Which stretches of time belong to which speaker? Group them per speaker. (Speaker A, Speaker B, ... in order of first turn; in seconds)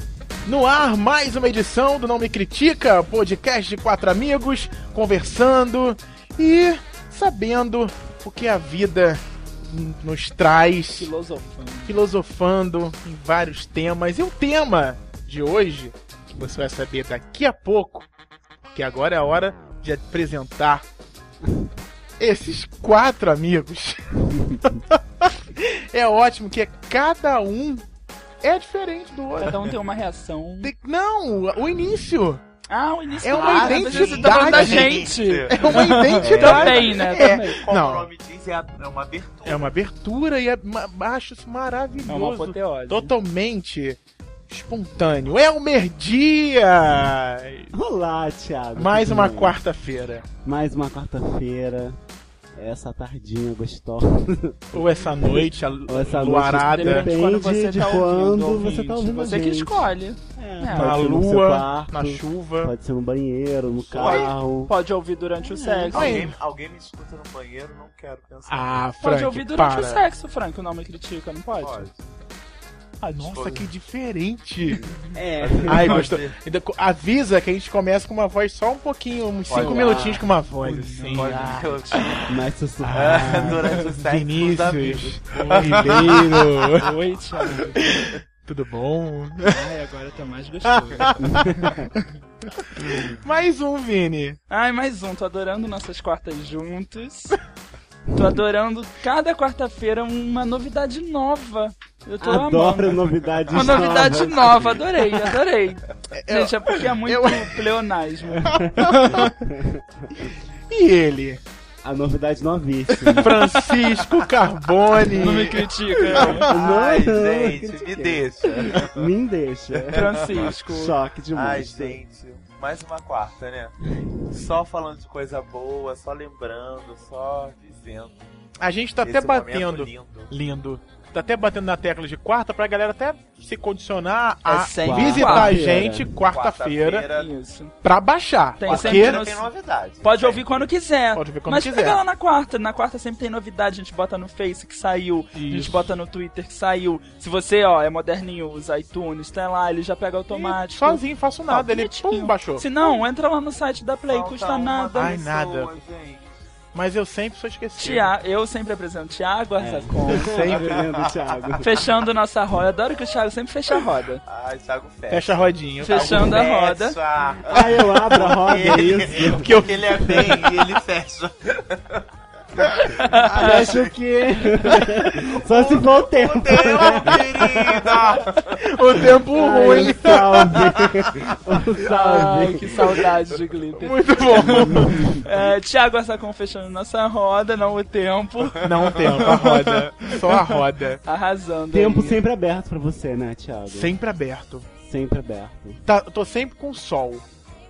Speaker A: 0.5-11.1, 11.9-18.1, 18.7-20.8, 22.2-27.9, 28.4-29.7, 30.6-32.4, 33.2-38.1, 39.5-47.7, 48.8-50.3, 54.7-57.1, 60.7-62.7, 65.9-66.3, 68.5-70.1, 73.0-74.9, 75.7-82.2, 82.8-87.0, 87.5-89.7, 90.7-92.0, 92.6-94.4, 106.1-107.6, 108.4-109.4, 110.7-111.4, 113.1-116.4, 128.6-137.1, 137.8-139.2, 141.2-142.0, 145.3-145.9, 150.3-153.0, 154.9-155.7, 156.7-158.1, 160.2-160.8, 165.1-166.3, 169.5-170.6, 176.9-180.8, 183.8-185.2, 188.6-191.0, 193.7-194.7, 195.9-197.2
Speaker B: 10.9-12.0, 29.4-30.7, 32.7-37.6, 42.1-43.1, 56.5-61.0, 64.0-66.2, 69.0-71.9, 79.6-82.0, 85.3-87.9, 89.5-91.8, 94.5-97.4, 98.1-108.6, 115.2-116.5, 119.9-121.0, 134.4-135.6, 137.1-137.7, 138.6-139.4, 140.0-155.2, 157.8-160.3, 161.6-164.2, 165.8-166.9, 172.9-173.7, 181.9-188.7, 191.0-192.2
Speaker C: 33.2-39.7, 63.8-64.4, 65.9-68.9, 71.6-72.0, 75.4-76.3, 79.5-80.2, 81.1-82.3, 82.9-86.7, 116.1-119.1, 119.7-120.5, 121.3-123.8, 124.3-128.2, 129.0-130.3, 136.3-137.3, 138.7-140.7, 154.1-156.3, 160.5-161.5, 164.2-172.0, 172.6-181.2, 189.0-189.6
Speaker D: 36.2-36.6, 47.7-49.6, 50.4-52.0, 52.5-64.7, 65.4-66.2, 75.1-76.1, 79.6-80.2, 82.3-83.8, 91.2-91.9, 102.2-104.9, 108.6-110.1, 111.8-113.5, 116.4-122.0, 134.8-136.1, 159.6-161.7, 167.5-170.4, 173.3-177.9, 179.3-182.8, 184.5-185.2, 191.7-194.0, 194.8-195.8